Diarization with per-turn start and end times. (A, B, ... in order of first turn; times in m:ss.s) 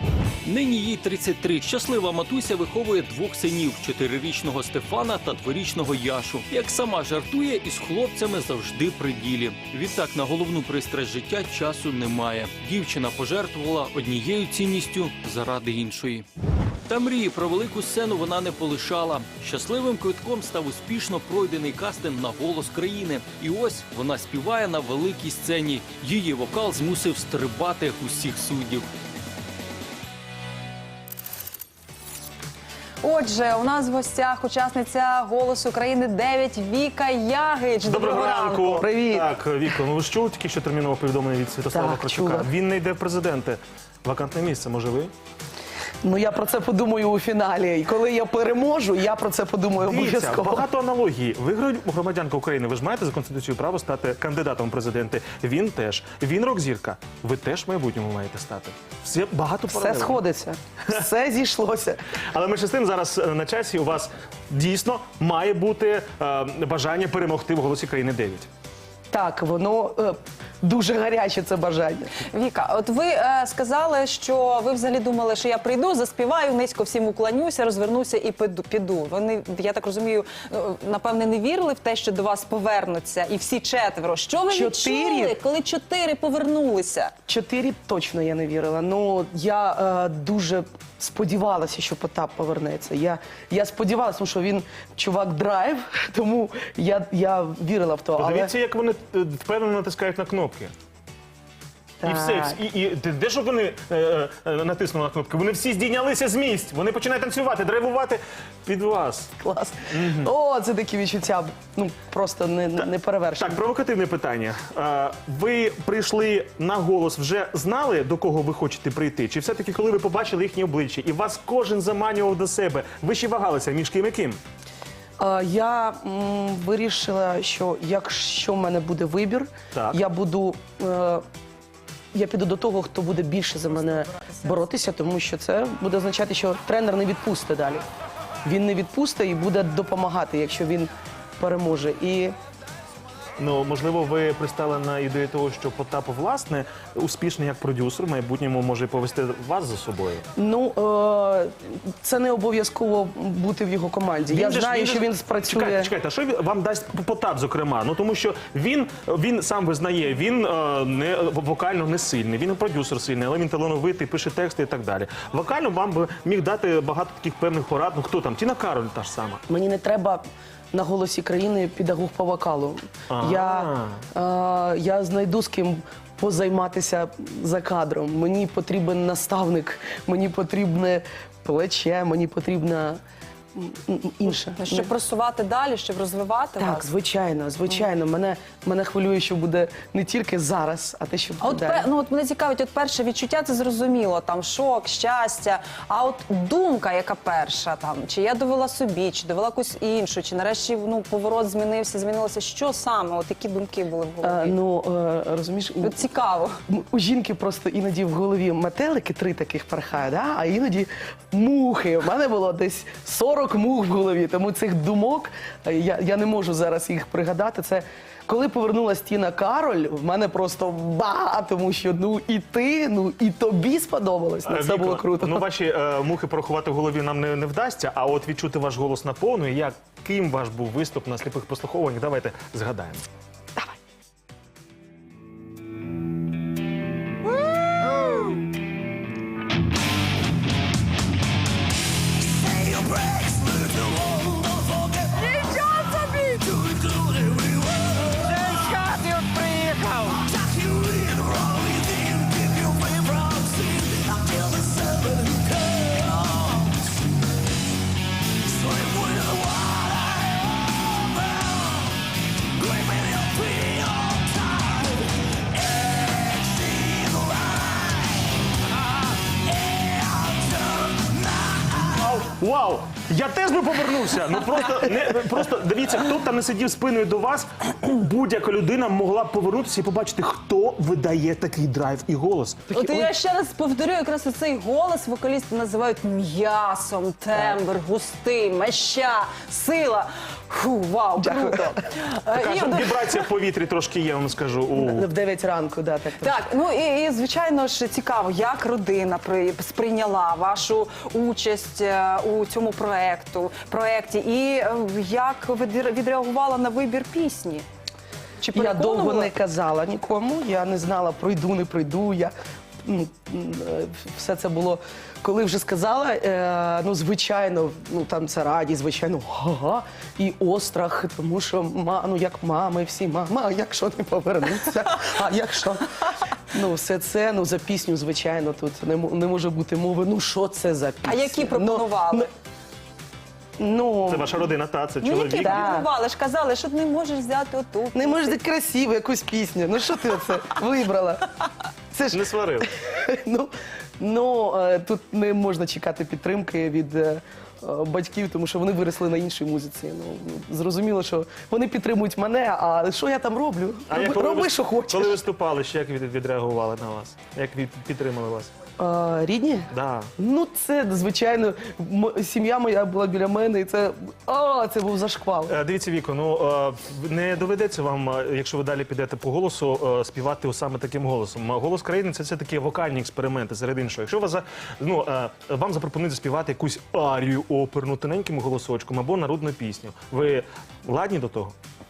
0:00.4-0:16.3 A
0:16.9-0:28.9 A
0:33.0-0:38.8 B
0:37.8-0:45.1 C
0:38.8-0:39.3 D
0:41.7-0:42.5 D
0:46.0-0:50.6 D
0:49.8-1:00.2 C
0:59.7-1:02.0 D
1:02.3-1:08.5 C
1:09.1-1:12.1 D
1:12.2-1:27.1 B
1:24.5-1:25.4 D
1:27.3-1:38.5 D
1:38.2-1:40.7 C
1:42.0-1:42.6 D
1:42.0-1:49.3 C
1:49.4-1:53.6 D
1:49.9-1:50.3 C
1:53.4-2:04.4 C
2:05.2-2:11.2 D
2:09.7-2:10.0 C
2:12.1-2:17.8 D
2:18.4-2:22.3 D
2:23.4-2:30.2 C
2:30.4-2:35.9 D
2:34.3-2:49.4 C
2:49.5-3:03.0 D
2:53.1-2:54.0 C
3:03.5-3:04.9 D
3:04.5-3:06.9 B
3:06.6-3:11.9 D
3:11.4-3:24.6 B
3:24.2-3:26.0 D
3:25.8-3:26.6 B
3:26.7-3:45.5 D
3:44.5-3:53.0 C
4:02.9-4:04.1 A
4:05.1-4:06.5 B
4:10.8-4:16.0 A
4:18.9-4:19.2 A
4:22.7-4:23.7 A
4:31.8-4:42.8 C
4:42.7-4:53.0 B
4:42.7-4:43.1 D
4:47.3-4:47.6 D
4:51.2-4:51.9 D
4:52.3-4:55.1 C
4:54.7-4:56.4 D
4:56.2-5:07.6 B
5:08.4-5:09.3 B
5:08.5-5:25.9 D
5:26.5-5:32.3 D
5:31.0-5:32.3 B
5:33.6-5:34.5 D
5:34.1-5:35.7 C
5:35.0-5:38.4 B
5:35.4-5:35.9 D
5:37.9-5:41.3 D
5:41.9-5:55.2 D
5:42.1-5:42.7 C
5:53.9-5:58.5 C
5:58.8-6:05.6 D
5:59.7-6:00.1 C
6:05.5-6:21.5 C